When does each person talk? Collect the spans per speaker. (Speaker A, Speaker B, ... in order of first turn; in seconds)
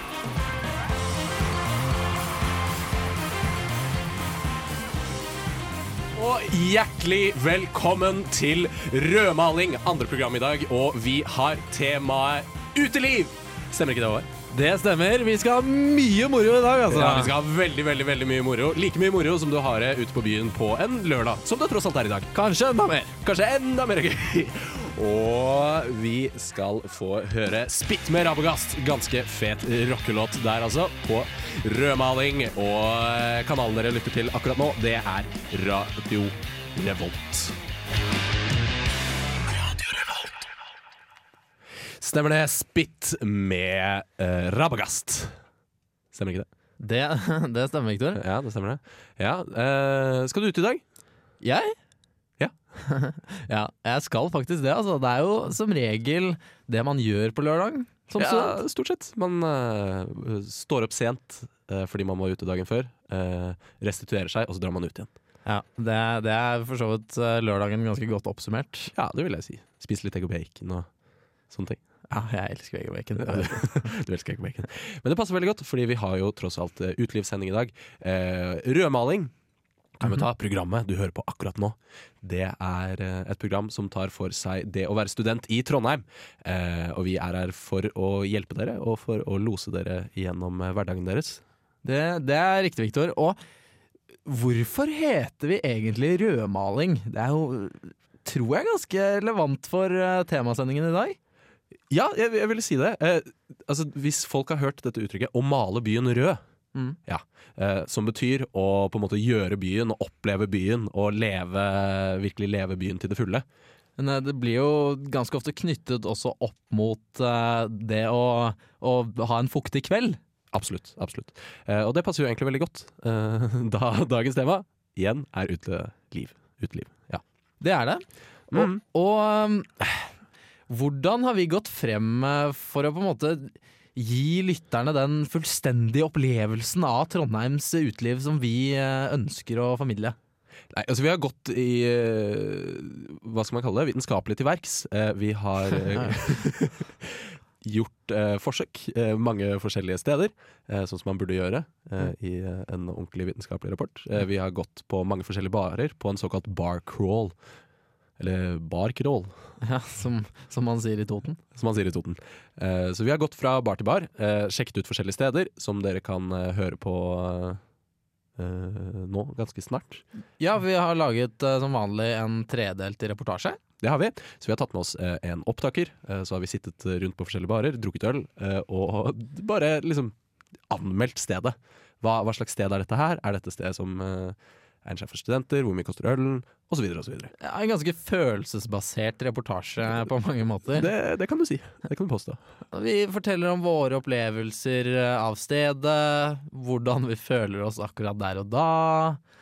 Speaker A: 6.1-14.3, 16.9-22.3, 23.2-37.5, 42.0-45.4, 46.1-46.5, 48.1-50.8, 52.4-52.8, 58.2-65.1, 68.9-70.9, 71.5-71.8, 73.2-79.3, 80.0-91.4, 101.9-106.4, 107.0-113.4, 120.5-127.2, 128.5-128.8, 140.7-157.4, 158.2-159.5, 161.5-167.6, 168.4-170.0, 173.8-180.1, 180.7-187.3, 190.7-192.4
Speaker B: 14.5-17.3, 22.3-23.1, 46.8-48.2, 51.4-51.7, 52.9-58.6, 65.4-68.9, 72.1-73.9, 91.8-93.4, 94.2-101.2, 114.0-120.2, 127.6-129.9, 130.7-140.2, 159.6-161.4, 170.4-173.6, 187.4-190.9, 192.7-199.2